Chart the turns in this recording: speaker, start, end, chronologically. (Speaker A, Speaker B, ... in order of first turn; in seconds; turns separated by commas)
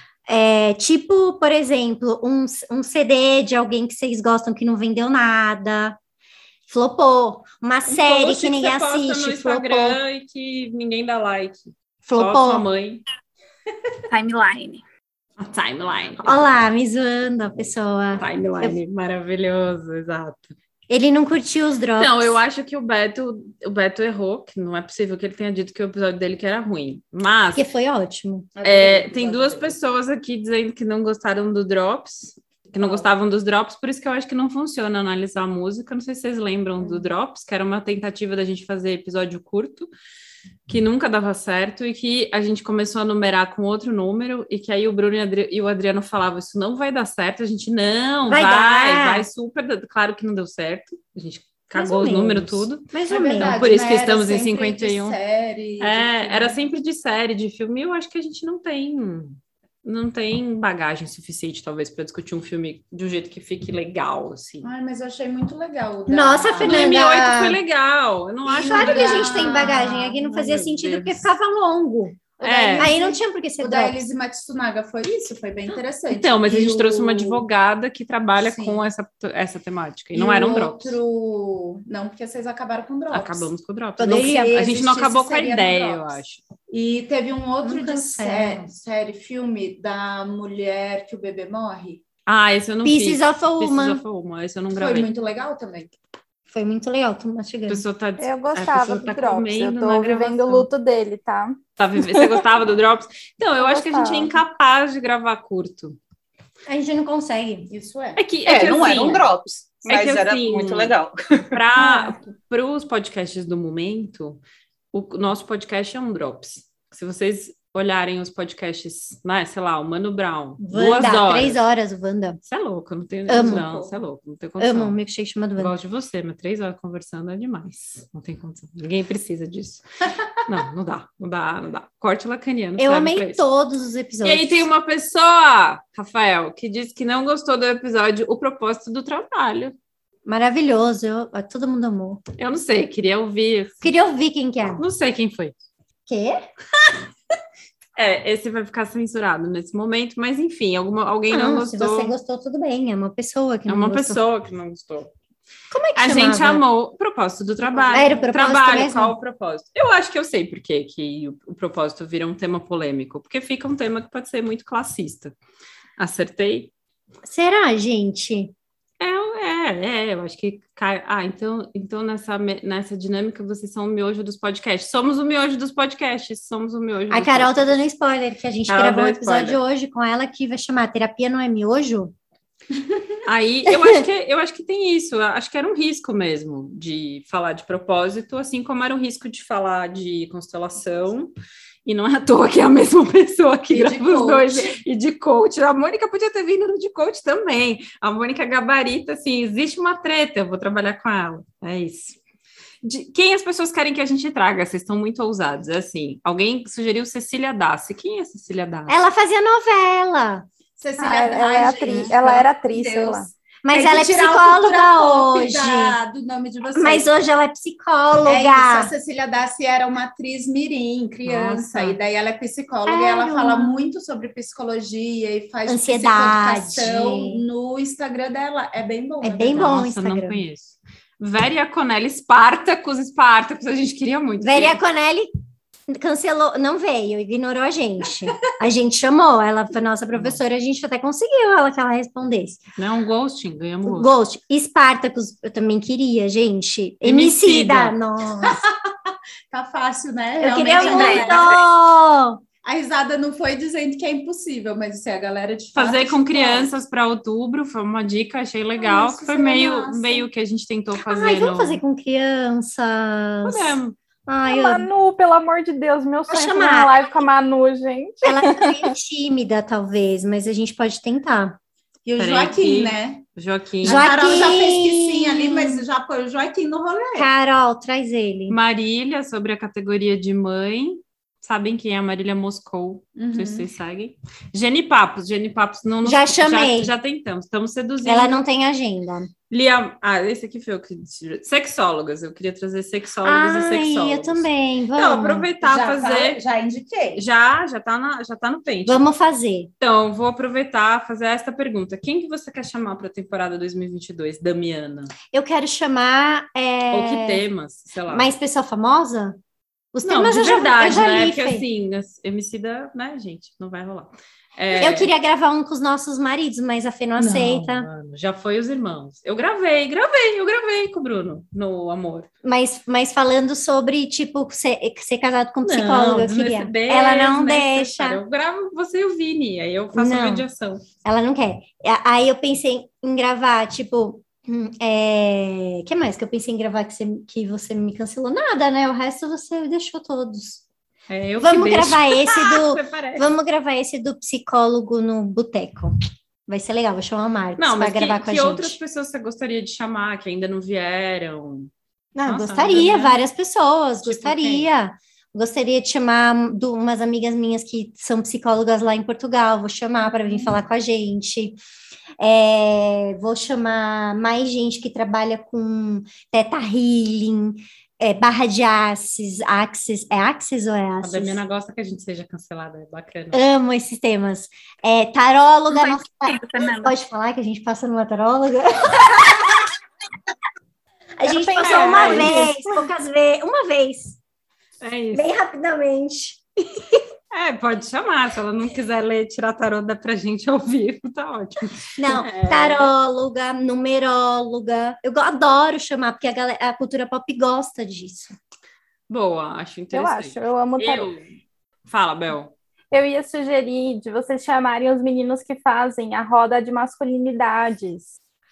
Speaker A: 0.3-6.0, Speaker A: 6.7-10.0, Speaker B: 7.9-13.0, Speaker A: 12.0-12.7, Speaker C: 14.1-14.8, Speaker B: 15.4-16.5, Speaker A: 16.2-18.8, Speaker B: 18.2-20.6, Speaker A: 20.9-22.4, Speaker B: 22.0-27.7, Speaker A: 27.6-28.5, Speaker D: 28.6-29.8, Speaker B: 28.6-39.9, Speaker D: 32.8-33.1, Speaker B: 40.7-55.2, Speaker A: 48.3-49.3, Speaker A: 51.7-53.6, Speaker D: 53.1-56.6, Speaker B: 55.8-64.7, Speaker D: 64.6-67.0, Speaker A: 66.1-67.6, Speaker B: 66.6-71.2, Speaker A: 68.5-74.0, Speaker D: 68.5-70.2, Speaker B: 72.4-72.9, Speaker D: 72.5-77.4, Speaker B: 76.1-81.0, Speaker D: 78.4-78.8, Speaker D: 80.1-83.5, Speaker B: 83.1-86.4, Speaker A: 84.0-84.7, Speaker D: 84.0-92.0, Speaker A: 87.6-88.7, Speaker B: 92.3-95.1, Speaker A: 92.8-94.0, Speaker D: 94.8-95.9, Speaker A: 96.5-97.8, Speaker B: 97.7-100.7, Speaker E: 98.2-101.6, Speaker B: 101.8-106.0, Speaker E: 103.6-104.3, Speaker A: 106.7-107.7, Speaker D: 107.7-108.2, Speaker B: 108.2-109.3, Speaker F: 108.5-111.4, Speaker B: 109.8-111.0, Speaker B: 111.5-114.4, Speaker B: 114.9-121.6, Speaker A: 120.6-122.4, Speaker B: 122.4-125.0, Speaker A: 123.3-123.7, Speaker D: 123.4-123.9, Speaker A: 124.6-125.8, Speaker B: 125.6-129.8, Speaker B: 130.4-133.4, Speaker A: 132.8-134.7, Speaker B: 134.2-139.8, Speaker A: 140.2-142.2, Speaker B: 142.4-143.9, Speaker A: 143.8-144.8, Speaker B: 144.8-145.6, Speaker A: 146.1-146.4, Speaker B: 148.0-152.2, Speaker A: 151.3-154.2, Speaker B: 153.7-155.1, Speaker A: 155.7-156.6, Speaker B: 156.0-165.3, Speaker D: 157.7-158.2, Speaker A: 157.9-159.2, Speaker B: 166.0-166.7, Speaker A: 167.2-168.5, Speaker B: 169.0-177.8, Speaker A: 177.1-182.1, Speaker B: 178.7-179.6, Speaker B: 183.2-191.3, Speaker A: 183.7-184.0, Speaker B: 191.9-202.2, Speaker D: 193.7-194.7, Speaker B: 202.8-209.0, Speaker A: 208.9-210.5, Speaker D: 210.8-217.1, Speaker E: 211.0-213.3, Speaker A: 213.6-216.0, Speaker A: 216.7-218.9, Speaker D: 218.2-229.8, Speaker B: 221.2-222.0, Speaker A: 222.8-223.8, Speaker A: 225.7-227.4, Speaker A: 229.2-230.4, Speaker B: 229.5-234.8, Speaker A: 234.4-235.3, Speaker A: 235.9-242.6, Speaker B: 240.1-240.4, Speaker B: 242.8-244.1, Speaker A: 243.8-248.6, Speaker B: 247.0-248.0, Speaker D: 249.5-251.4, Speaker A: 250.4-252.4, Speaker C: 250.6-251.6, Speaker D: 252.6-256.7, Speaker B: 255.7-261.8, Speaker D: 258.8-260.3, Speaker A: 261.1-264.9, Speaker B: 263.4-264.0, Speaker E: 264.5-268.9, Speaker A: 266.3-267.2, Speaker A: 268.2-271.6, Speaker D: 272.1-273.2, Speaker B: 272.2-274.1, Speaker D: 273.8-277.3, Speaker A: 273.8-275.9, Speaker A: 277.1-278.6, Speaker B: 278.5-288.4, Speaker D: 283.2-283.7, Speaker A: 286.0-286.9, Speaker A: 288.1-289.3, Speaker B: 289.5-296.4, Speaker A: 293.2-295.5, Speaker D: 295.6-297.2, Speaker B: 297.1-299.1, Speaker A: 298.9-299.7, Speaker B: 299.8-305.1, Speaker A: 305.3-307.4, Speaker B: 306.9-308.3, Speaker A: 308.1-309.4, Speaker A: 309.9-311.7, Speaker B: 310.1-315.1, Speaker A: 314.8-317.9, Speaker B: 317.2-322.3, Speaker A: 322.4-328.2, Speaker B: 325.6-330.8, Speaker A: 329.9-330.5, Speaker A: 331.1-340.6, Speaker B: 341.1-343.3, Speaker A: 341.4-345.9, Speaker A: 346.5-348.8, Speaker B: 347.6-351.7, Speaker A: 352.1-361.6, Speaker B: 352.2-353.2, Speaker B: 354.0-354.7, Speaker A: 362.2-371.4, Speaker B: 371.0-373.4, Speaker A: 373.3-379.6, Speaker C: 375.7-376.9, Speaker A: 381.2-384.2, Speaker E: 381.2-382.8, Speaker B: 381.6-382.3, Speaker B: 384.8-385.3, Speaker A: 385.1-387.0, Speaker B: 387.3-392.9, Speaker A: 392.0-398.4, Speaker B: 399.1-401.3, Speaker E: 399.9-401.1, Speaker B: 401.9-402.5, Speaker E: 402.9-408.2